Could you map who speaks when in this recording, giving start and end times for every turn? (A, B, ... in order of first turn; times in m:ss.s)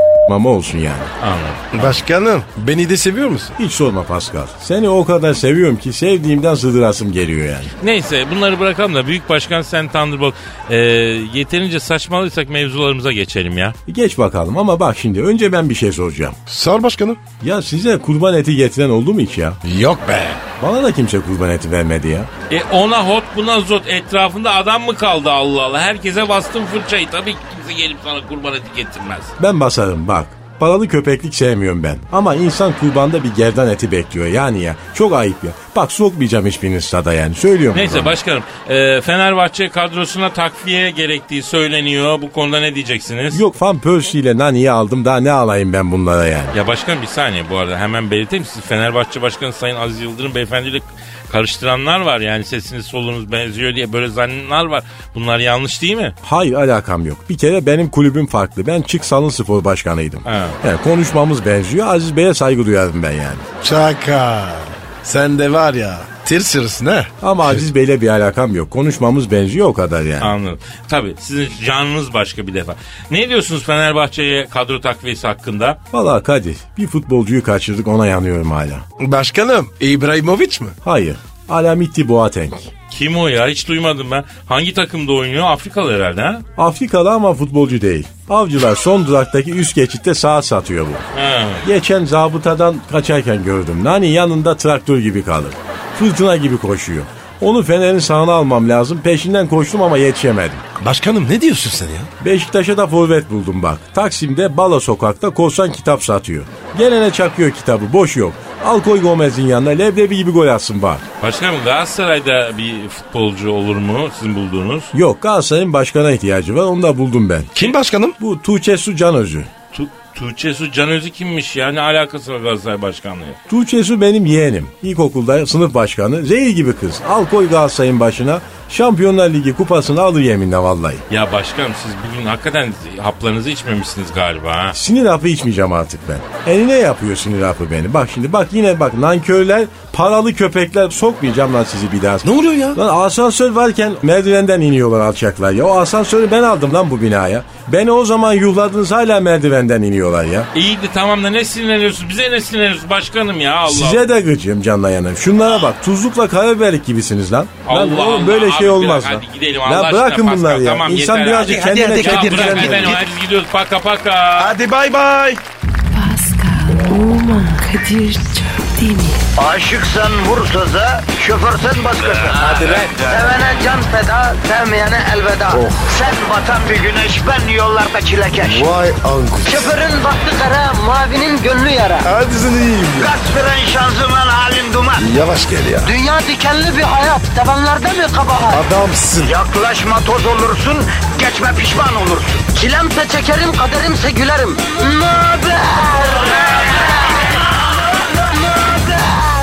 0:00.2-0:01.1 A
0:01.2-0:02.0 B
0:01.7-0:03.6 C
0:03.6-0:07.7 A
0:07.8-0:13.8 B
0:13.9-0:16.4 A
0:16.5-0:17.2 C
0:17.4-0:19.6 A
0:19.6-0:20.4 C
0:20.6-0:22.3 A
0:22.5-0:29.3 B
0:29.4-0:38.2 A
0:37.7-0:43.4 B
0:43.3-0:46.5 A
0:46.5-0:56.1 B
0:56.2-1:03.4 A
1:00.2-1:00.6 B
1:03.6-1:07.6 C
1:07.2-1:10.3 A
1:10.2-1:15.8 B
1:15.9-1:18.8 A
1:19.0-1:20.7 C
1:20.8-1:22.7 A
1:22.9-1:26.4 B
1:26.6-1:31.0 A
1:31.1-1:31.6 B
1:31.6-1:40.6 A
1:40.8-1:42.1 C
1:42.2-1:51.0 A
1:51.2-1:54.9 B
1:54.9-1:57.6 A
1:57.5-1:58.2 C
1:58.2-1:59.5 A
1:59.7-2:03.4 B
2:03.5-2:11.0 A
2:11.1-2:14.8 B
2:14.7-2:30.5 A
2:22.2-2:22.8 C
2:30.5-2:34.0 B
2:33.7-2:43.0 A
2:37.6-2:44.5 B
2:41.4-2:43.0 C
2:44.4-2:45.4 C
2:45.9-2:49.2 D
2:49.4-2:58.7 E
2:52.4-2:53.1 C
2:55.5-2:55.8 C
2:58.4-2:59.7 C
2:59.4-3:02.1 E
3:02.0-3:03.1 C
3:03.0-3:05.1 E
3:05.0-3:05.9 C
3:05.8-3:08.6 E
3:08.5-3:09.3 C
3:09.2-3:16.8 E
3:18.3-3:19.3 E